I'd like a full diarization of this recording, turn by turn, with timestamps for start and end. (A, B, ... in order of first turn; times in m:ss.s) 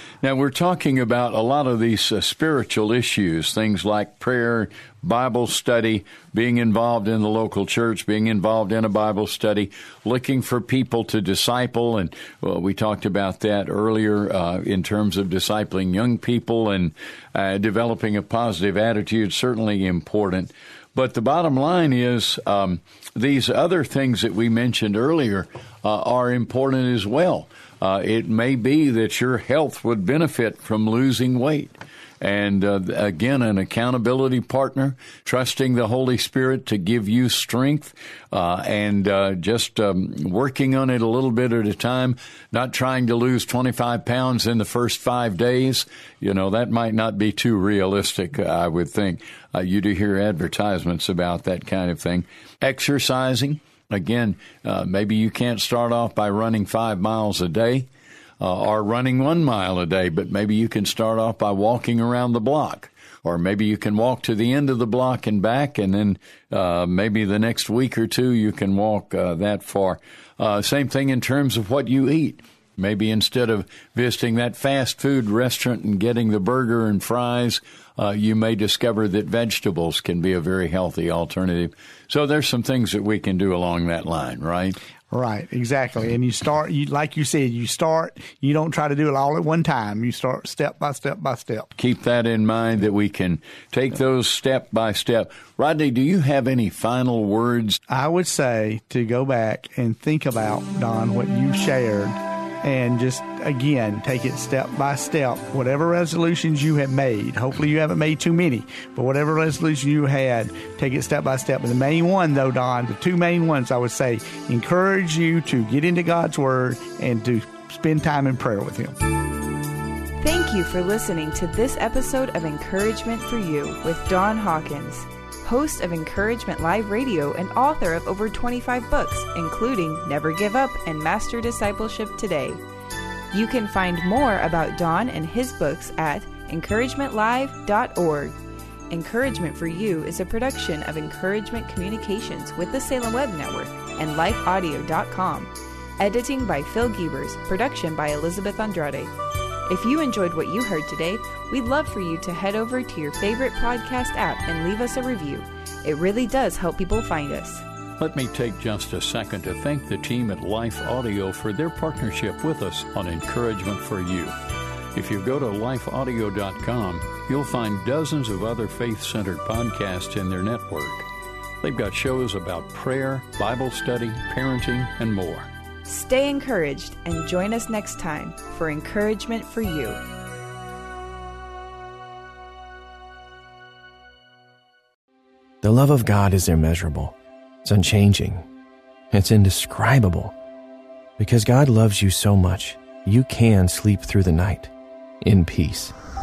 0:00.2-0:57.9 A
0:58.4-1:24.8 A
1:25.1-1:31.7 B
1:31.8-1:37.8 A
1:37.9-1:59.0 B
2:00.2-2:12.6 C
2:13.3-2:18.3 C
2:18.9-2:29.1 C
2:29.7-2:37.6 C
2:38.0-2:44.3 A
2:44.9-2:51.1 A
2:51.6-2:55.5 A
2:55.9-3:00.0 C
3:05.6-3:08.5 D
3:09.1-3:10.3 D
3:11.2-3:14.7 D
3:15.2-3:15.9 D